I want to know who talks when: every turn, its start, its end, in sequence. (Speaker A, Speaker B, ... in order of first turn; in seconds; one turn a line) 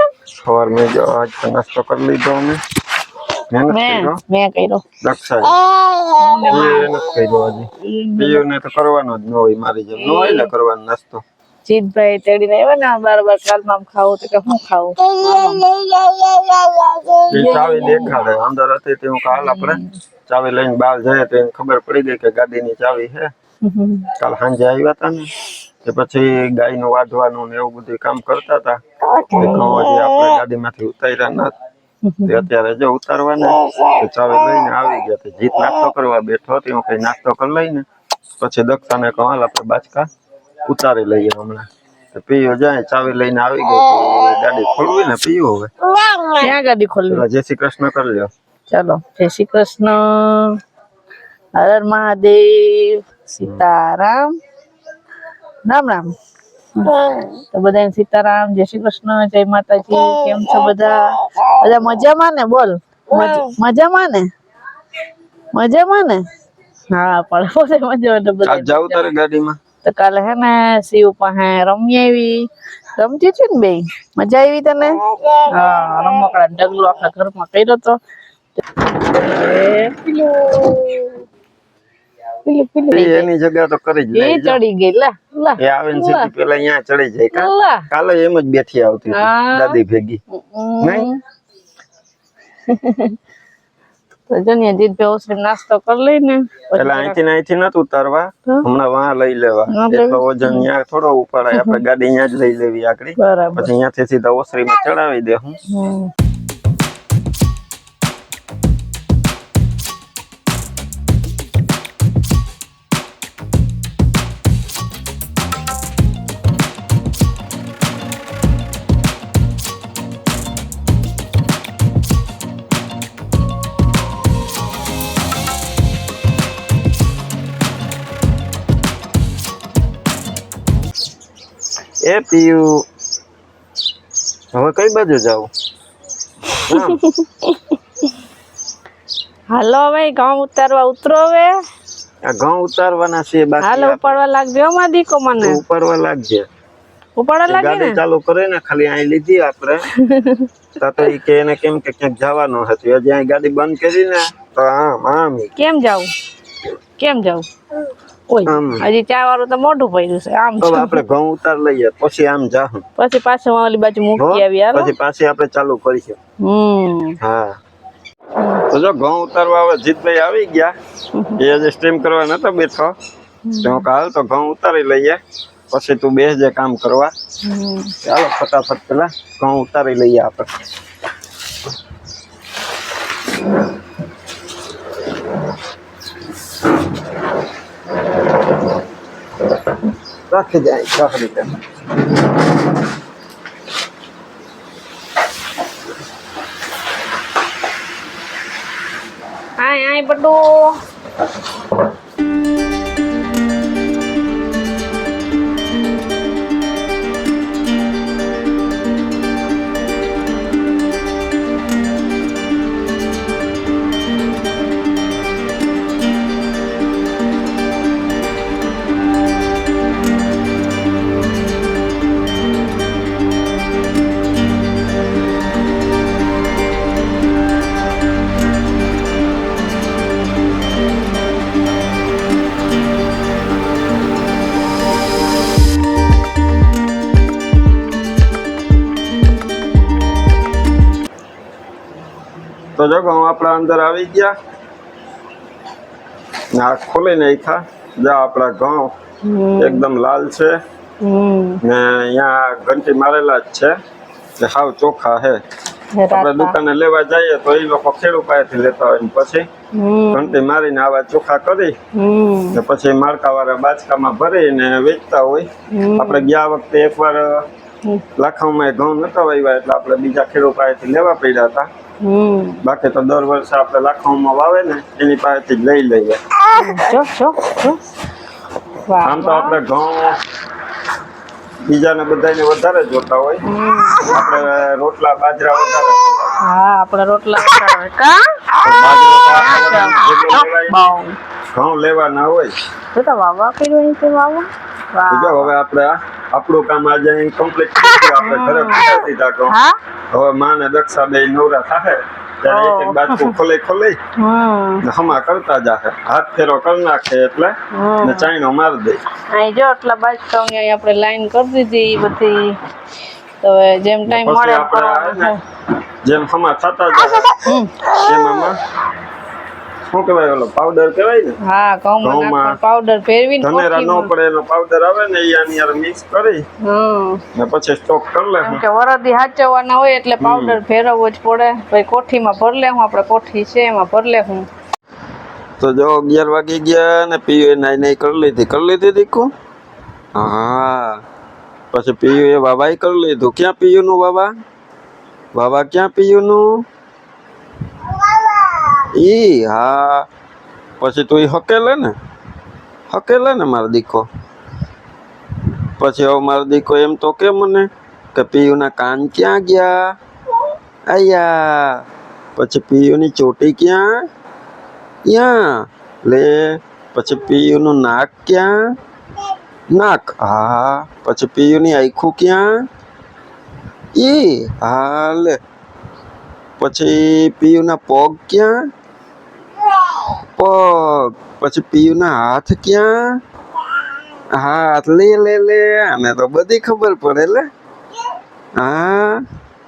Speaker A: 0.3-2.6
Speaker A: 3.5-4.2
Speaker B: 3.7-4.8
Speaker A: 5.0-5.6
Speaker B: 6.0-6.9
Speaker A: 6.5-11.2
Speaker B: 7.8-8.4
Speaker B: 9.9-10.5
Speaker B: 11.6-18.2
Speaker A: 17.3-23.3
Speaker B: 19.3-19.9
Speaker B: 23.6-24.1
Speaker A: 24.2-25.3
Speaker A: 25.8-28.8
Speaker B: 29.3-29.9
Speaker A: 29.3-31.5
Speaker B: 32.0-32.5
Speaker A: 32.2-37.9
Speaker A: 38.4-40.1
Speaker A: 40.6-45.7
Speaker B: 46.3-47.2
Speaker A: 47.1-48.3
Speaker B: 48.7-50.6
Speaker B: 51.5-54.4
Speaker B: 55.6-56.1
Speaker B: 56.8-64.3
Speaker B: 65.5-66.2
Speaker B: 66.9-69.0
Speaker A: 68.4-69.6
Speaker B: 69.8-78.0
Speaker B: 78.6-81.2
Speaker B: 82.4-83.3
Speaker A: 82.9-84.6
Speaker B: 84.1-86.3
Speaker A: 85.6-90.2
Speaker B: 87.3-87.9
Speaker B: 89.1-89.8
Speaker B: 90.3-91.2
Speaker A: 90.8-91.1
Speaker B: 92.7-93.2
Speaker B: 94.3-97.2
Speaker A: 96.7-105.6
Speaker B: 99.7-100.6
Speaker B: 101.5-101.8
Speaker B: 103.2-103.7
Speaker B: 105.7-106.1
Speaker A: 132.0-132.8
Speaker A: 134.5-135.5
Speaker B: 136.6-137.6
Speaker A: 136.7-137.0
Speaker B: 139.5-141.5
Speaker A: 142.2-144.2
Speaker B: 143.6-145.6
Speaker A: 145.4-146.5
Speaker B: 147.2-148.0
Speaker A: 147.4-149.8
Speaker B: 150.0-150.5
Speaker A: 150.8-155.5
Speaker B: 155.6-156.1
Speaker B: 157.0-157.5
Speaker B: 158.3-161.0
Speaker A: 158.4-158.8
Speaker A: 160.6-162.8
Speaker B: 163.0-164.9
Speaker A: 164.2-166.2
Speaker B: 166.4-167.2
Speaker A: 167.2-167.6
Speaker A: 168.7-170.7
Speaker A: 171.4-172.9
Speaker B: 173.4-173.8
Speaker A: 173.6-175.2
Speaker A: 175.7-177.1
Speaker B: 177.4-177.9
Speaker A: 178.0-180.5
Speaker A: 190.3-191.5
Speaker B: 199.6-200.7
Speaker A: 242.8-244.3
Speaker A: 246.5-248.9
Speaker B: 249.2-249.8
Speaker A: 249.6-250.6
Speaker B: 251.0-251.6
Speaker A: 251.6-253.7
Speaker A: 254.4-255.4
Speaker B: 255.9-256.6
Speaker A: 256.1-259.4
Speaker B: 259.7-260.4
Speaker A: 260.1-261.8
Speaker B: 261.9-262.6
Speaker A: 262.5-267.4
Speaker B: 265.7-266.3
Speaker A: 268.1-271.7
Speaker B: 272.0-272.6
Speaker A: 272.6-276.2
Speaker B: 276.5-277.8
Speaker B: 278.8-279.6
Speaker A: 279.0-280.1
Speaker A: 281.6-283.4
Speaker B: 283.4-284.3
Speaker A: 284.0-286.4
Speaker B: 286.4-288.2
Speaker A: 288.6-290.8
Speaker B: 289.3-291.1
Speaker A: 291.5-292.5
Speaker B: 292.9-295.5
Speaker A: 295.1-299.5
Speaker B: 298.1-299.8
Speaker A: 300.1-304.0
Speaker B: 302.5-303.3
Speaker B: 304.2-304.8
Speaker A: 304.8-309.0
Speaker B: 307.7-308.3
Speaker B: 309.3-312.5
Speaker B: 313.4-315.4
Speaker A: 314.1-315.3
Speaker A: 316.0-317.4
Speaker B: 317.4-317.9
Speaker A: 317.9-318.6
Speaker A: 319.9-321.4
Speaker B: 321.4-324.1
Speaker A: 322.0-322.6
Speaker A: 323.4-326.4
Speaker B: 326.6-327.2
Speaker A: 327.3-328.6
Speaker B: 328.4-334.4
Speaker A: 330.2-330.6
Speaker A: 335.6-339.3
Speaker A: 340.1-341.0
Speaker A: 341.7-344.3
Speaker A: 345.3-346.6
Speaker A: 348.9-350.1
Speaker A: 350.8-351.9
Speaker A: 352.9-354.1
Speaker A: 355.8-359.9
Speaker A: 360.9-361.8
Speaker A: 362.4-364.0
Speaker A: 365.1-368.6
Speaker A: 369.7-372.6
Speaker A: 373.9-375.4
Speaker A: 376.6-378.7
Speaker A: 380.4-383.2
Speaker A: 384.3-387.5
Speaker A: 388.6-389.2